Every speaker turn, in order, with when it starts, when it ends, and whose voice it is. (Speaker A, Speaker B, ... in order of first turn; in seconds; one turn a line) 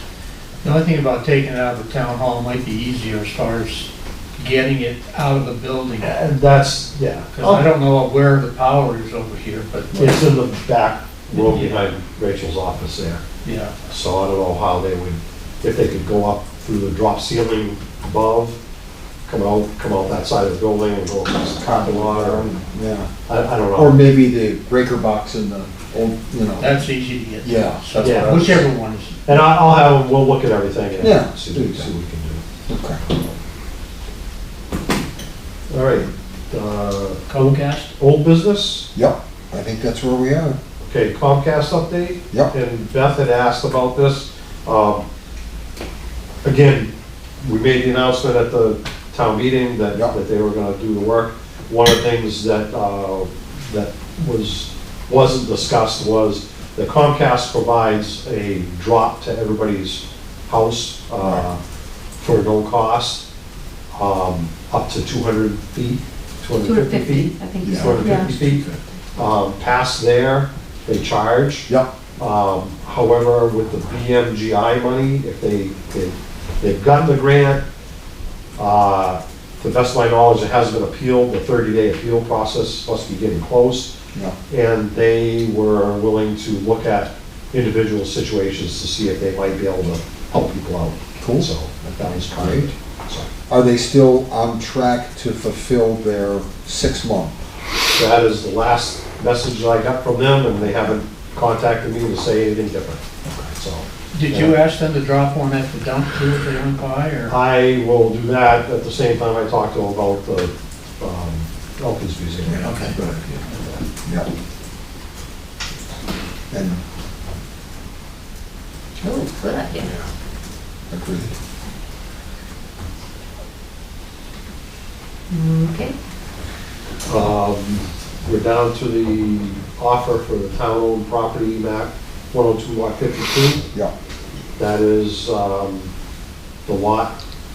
Speaker A: 0.6-6.1
Speaker B: 6.0-7.7
Speaker A: 7.3-10.1
Speaker B: 9.9-13.2
Speaker A: 11.3-11.9
Speaker A: 13.4-13.7
Speaker B: 13.9-18.6
Speaker B: 19.3-22.5
Speaker C: 21.6-23.1
Speaker B: 23.3-24.0
Speaker C: 23.7-26.8
Speaker A: 26.6-29.2
Speaker C: 27.4-28.4
Speaker B: 27.9-28.6
Speaker B: 29.2-32.4
Speaker C: 31.0-31.9
Speaker C: 32.7-33.1
Speaker B: 35.7-38.9
Speaker A: 37.3-37.9
Speaker C: 38.9-40.6
Speaker B: 40.9-45.0
Speaker B: 46.4-61.6
Speaker C: 61.2-61.5
Speaker B: 62.2-63.2
Speaker B: 63.9-77.6
Speaker D: 66.6-68.3
Speaker C: 67.6-68.8
Speaker B: 78.6-83.9
Speaker B: 84.5-93.3
Speaker C: 91.2-91.5
Speaker C: 92.2-92.7
Speaker C: 93.5-97.3
Speaker B: 97.9-104.6
Speaker A: 104.1-107.3
Speaker B: 107.3-112.9
Speaker C: 112.4-113.4
Speaker A: 112.6-113.0
Speaker B: 113.5-113.8
Speaker C: 114.0-114.3
Speaker C: 116.5-116.8
Speaker D: 119.0-119.9
Speaker C: 119.8-120.0
Speaker C: 120.9-121.3
Speaker D: 125.3-125.9
Speaker B: 127.0-133.7
Speaker B: 134.6-135.9
Speaker B: 136.7-137.2